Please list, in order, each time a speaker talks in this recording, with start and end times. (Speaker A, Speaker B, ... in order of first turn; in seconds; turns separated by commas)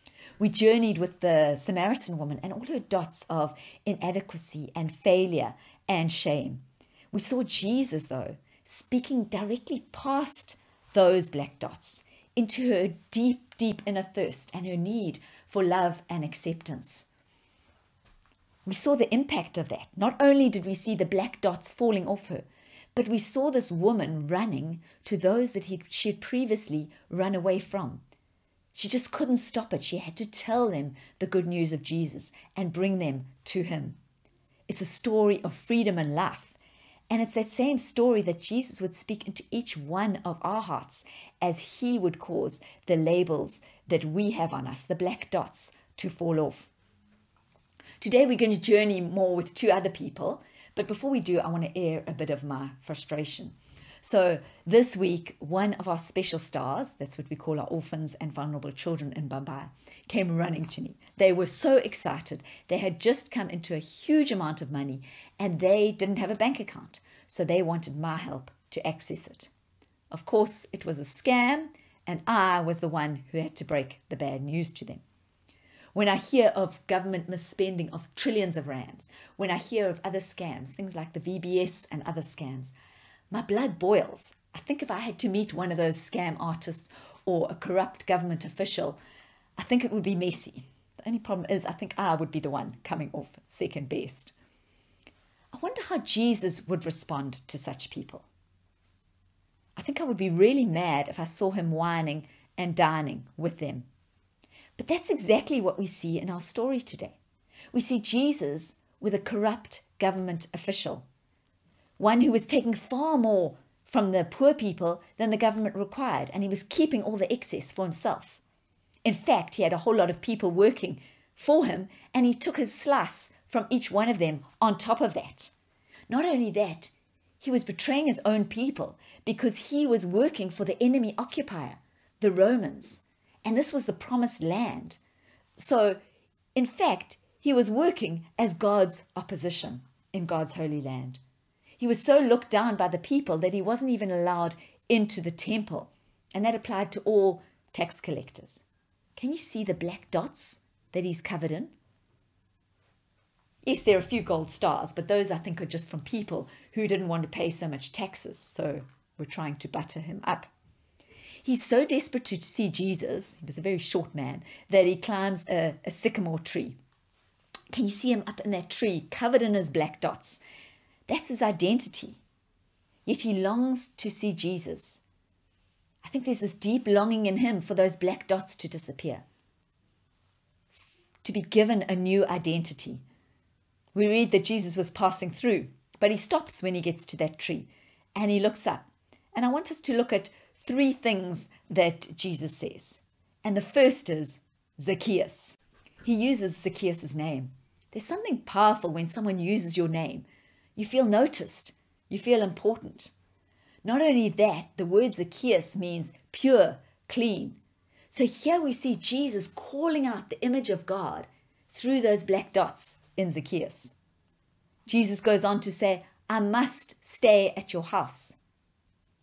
Speaker A: 0.4-17.1, Speaker A: 18.7-28.0, Speaker A: 28.7-34.0, Speaker A: 34.7-36.5, Speaker A: 37.1-46.7, Speaker A: 48.0-69.5, Speaker A: 70.1-75.0, Speaker A: 76.0-82.7, Speaker A: 83.3-89.0, Speaker A: 89.6-94.3, Speaker A: 95.5-98.3, Speaker A: 99.8-103.9, Speaker A: 104.8-107.2, Speaker A: 107.7-111.1, Speaker A: 112.0-118.4, Speaker A: 119.0-125.5, Speaker A: 126.1-135.0, Speaker A: 135.6-136.0, Speaker A: 136.6-141.2, Speaker A: 141.8-148.6, Speaker A: 149.2-151.7, Speaker A: 153.7-160.5, Speaker A: 161.4-166.8, Speaker A: 167.7-170.4, Speaker A: 171.1-172.2, Speaker A: 173.1-175.0, Speaker A: 176.0-179.2, Speaker A: 181.2-183.0, Speaker A: 183.9-203.1, Speaker A: 203.8-207.6, Speaker A: 208.1-213.9, Speaker A: 214.9-218.4